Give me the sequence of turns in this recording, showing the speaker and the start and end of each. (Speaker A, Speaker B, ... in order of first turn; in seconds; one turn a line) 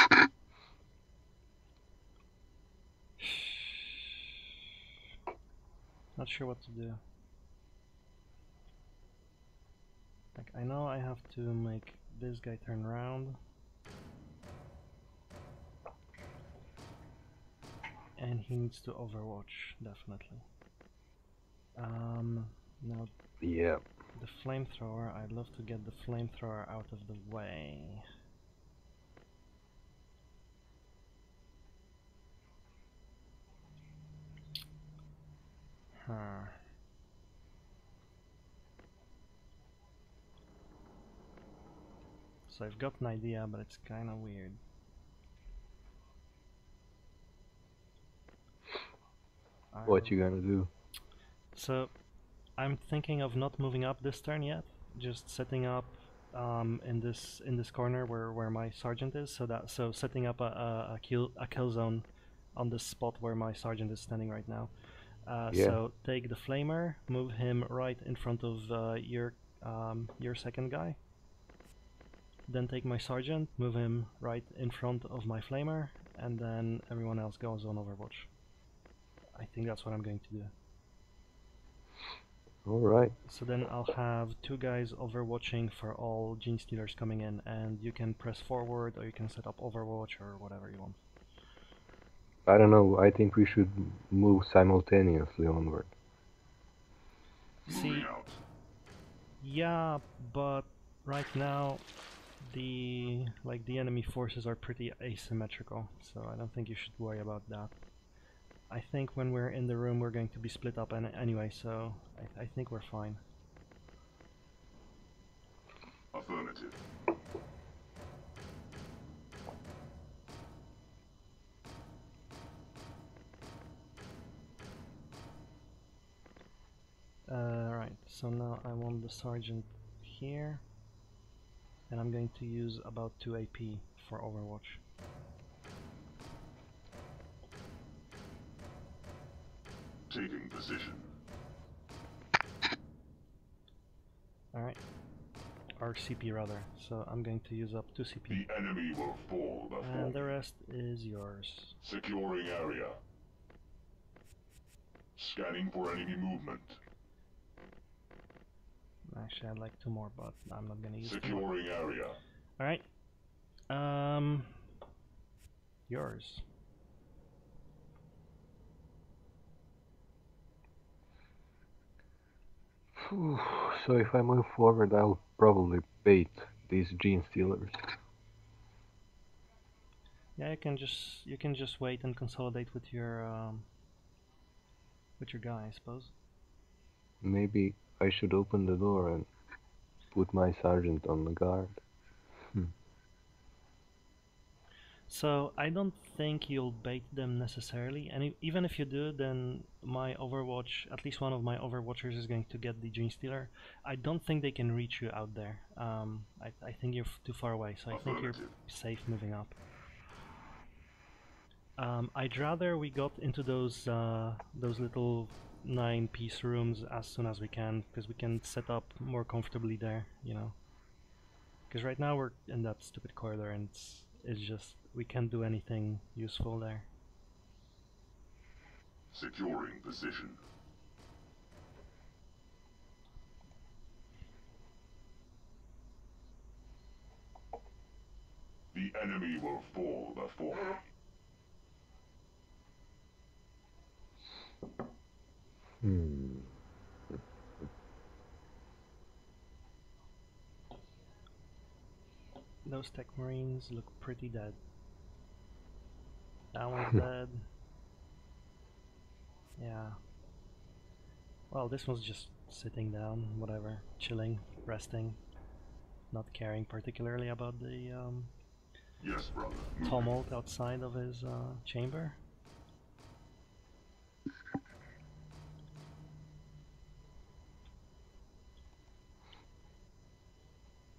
Speaker A: 3.2-4.3
Speaker A: 6.2-7.0
Speaker A: 10.3-13.4
Speaker A: 18.2-20.4
Speaker A: 21.8-23.1
Speaker B: 23.4-23.8
Speaker A: 24.1-28.0
Speaker A: 36.0-36.6
Speaker A: 42.5-44.6
Speaker A: 49.7-50.1
Speaker B: 49.9-50.7
Speaker A: 51.5-51.9
Speaker A: 52.6-62.0
Speaker A: 62.5-64.7
Speaker A: 65.2-71.0
Speaker B: 65.5-65.8
Speaker A: 72.5-78.3
Speaker A: 79.4-80.5
Speaker B: 82.6-83.1
Speaker A: 83.3-91.0
Speaker B: 92.5-95.9
Speaker A: 97.6-98.1
Speaker C: 97.7-98.4
Speaker A: 99.4-101.8
Speaker A: 102.4-107.7
Speaker A: 108.7-113.2
Speaker C: 116.1-116.8
Speaker A: 127.3-130.6
Speaker A: 131.9-134.8
Speaker C: 140.1-141.1
Speaker A: 144.5-144.8
Speaker A: 145.8-148.4
Speaker C: 148.3-150.3
Speaker A: 149.8-151.8
Speaker C: 151.8-153.0
Speaker C: 155.2-156.8
Speaker A: 159.1-161.4
Speaker C: 161.0-162.2
Speaker A: 162.6-162.8
Speaker A: 163.7-164.7
Speaker A: 165.9-166.4
Speaker B: 172.9-177.8
Speaker A: 180.4-183.7
Speaker A: 185.2-186.1
Speaker B: 187.2-189.3
Speaker B: 190.1-191.8
Speaker A: 195.1-209.6
Speaker C: 207.9-208.5
Speaker A: 211.8-220.5
Speaker A: 221.7-226.9
Speaker C: 229.1-230.4
Speaker C: 238.7-240.8
Speaker B: 245.8-246.5
Speaker A: 252.6-254.6
Speaker A: 256.5-257.4
Speaker A: 259.6-260.0
Speaker A: 261.5-265.2
Speaker A: 266.1-268.3
Speaker C: 269.0-270.1
Speaker A: 269.8-272.2